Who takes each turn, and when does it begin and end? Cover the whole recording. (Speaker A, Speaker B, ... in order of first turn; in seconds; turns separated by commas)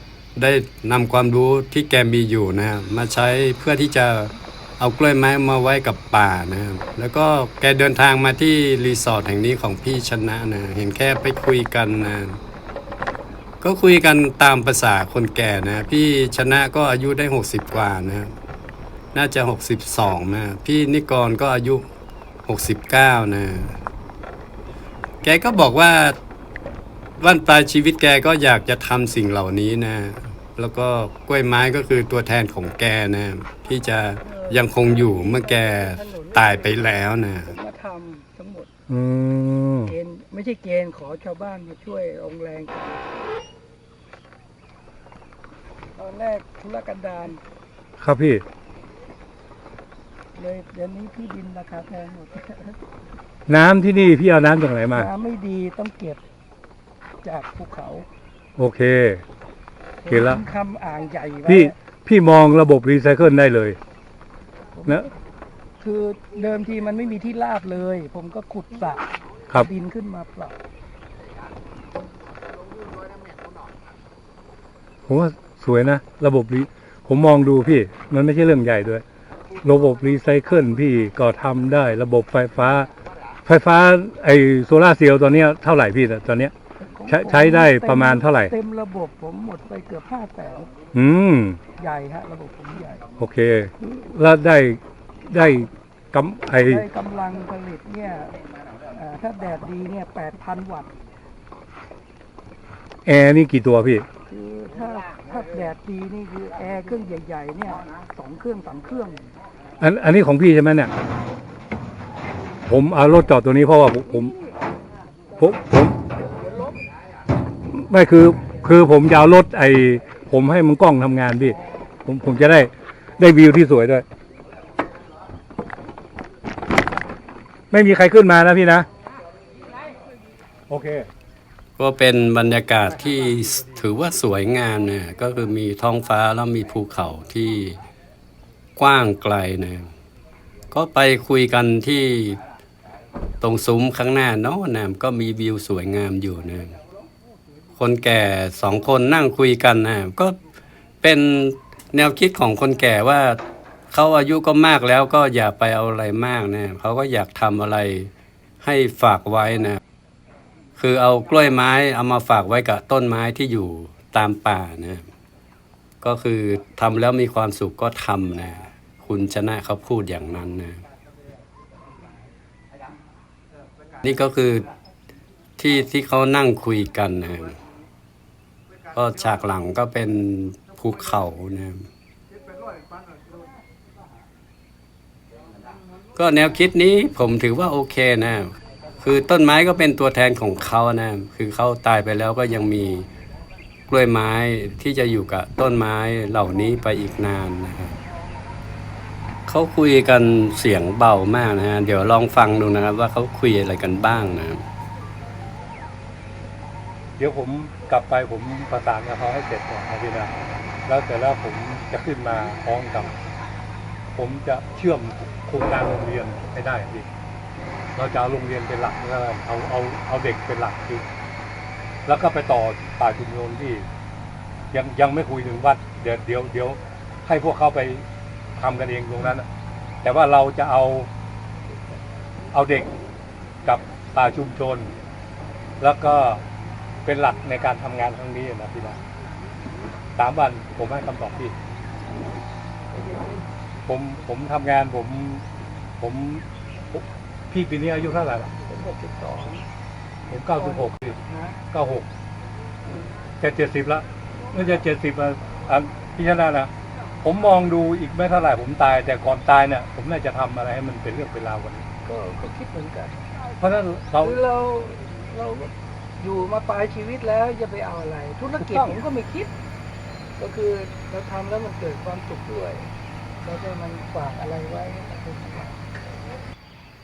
Speaker A: 0.3-12.4, Speaker A: 13.6-18.3, Speaker A: 19.1-21.8, Speaker A: 22.4-23.8, Speaker A: 25.2-26.2, Speaker A: 27.2-37.5, Speaker B: 34.2-38.7, Speaker C: 38.9-39.9, Speaker B: 39.9-43.0, Speaker B: 46.0-47.4, Speaker C: 48.0-48.4, Speaker B: 50.3-52.8, Speaker C: 53.5-55.1, Speaker B: 54.9-56.2, Speaker B: 57.2-58.0, Speaker C: 58.6-59.2, Speaker B: 60.0-61.7, Speaker C: 60.1-60.4, Speaker C: 61.5-63.8, Speaker B: 64.8-65.1, Speaker B: 65.8-69.1, Speaker B: 69.6-70.6, Speaker C: 75.1-79.0, Speaker C: 79.6-82.9, Speaker C: 83.5-86.5, Speaker B: 86.8-90.7, Speaker C: 87.1-88.5, Speaker C: 90.9-91.6, Speaker B: 91.7-93.0, Speaker C: 93.2-96.8, Speaker B: 96.7-98.4, Speaker B: 98.9-100.9, Speaker C: 103.0-104.0, Speaker B: 104.3-109.3, Speaker C: 109.8-110.9, Speaker C: 112.7-114.3, Speaker C: 115.4-116.0, Speaker C: 117.7-124.0, Speaker C: 127.7-128.9, Speaker C: 130.7-131.1, Speaker A: 131.8-137.8, Speaker A: 138.8-139.9, Speaker A: 140.7-142.4, Speaker A: 143.4-146.8, Speaker A: 147.8-150.4, Speaker A: 151.0-153.4, Speaker A: 153.9-158.1, Speaker A: 158.6-159.8, Speaker A: 160.8-165.0, Speaker A: 166.0-170.8, Speaker A: 174.0-174.7, Speaker A: 175.6-177.6, Speaker A: 178.9-181.8, Speaker A: 186.2-193.1, Speaker A: 193.9-198.0, Speaker A: 199.5-204.6, Speaker C: 207.2-210.3, Speaker C: 210.8-213.2, Speaker C: 214.2-217.1, Speaker C: 217.9-221.1, Speaker C: 222.1-223.8, Speaker C: 224.7-228.0, Speaker C: 228.6-229.5, Speaker C: 230.0-231.1, Speaker C: 232.5-232.9, Speaker C: 233.6-234.9, Speaker C: 235.8-236.4, Speaker C: 237.0-239.0, Speaker C: 240.2-241.5, Speaker C: 243.8-245.4, Speaker C: 246.0-246.4, Speaker C: 246.9-248.5, Speaker B: 248.5-249.6, Speaker C: 250.3-251.2, Speaker B: 250.6-251.6, Speaker C: 251.7-252.1, Speaker C: 253.4-256.7, Speaker C: 257.2-261.8, Speaker B: 262.0-263.2, Speaker C: 263.6-264.4, Speaker B: 264.2-269.5, Speaker B: 270.4-272.9, Speaker B: 273.4-275.8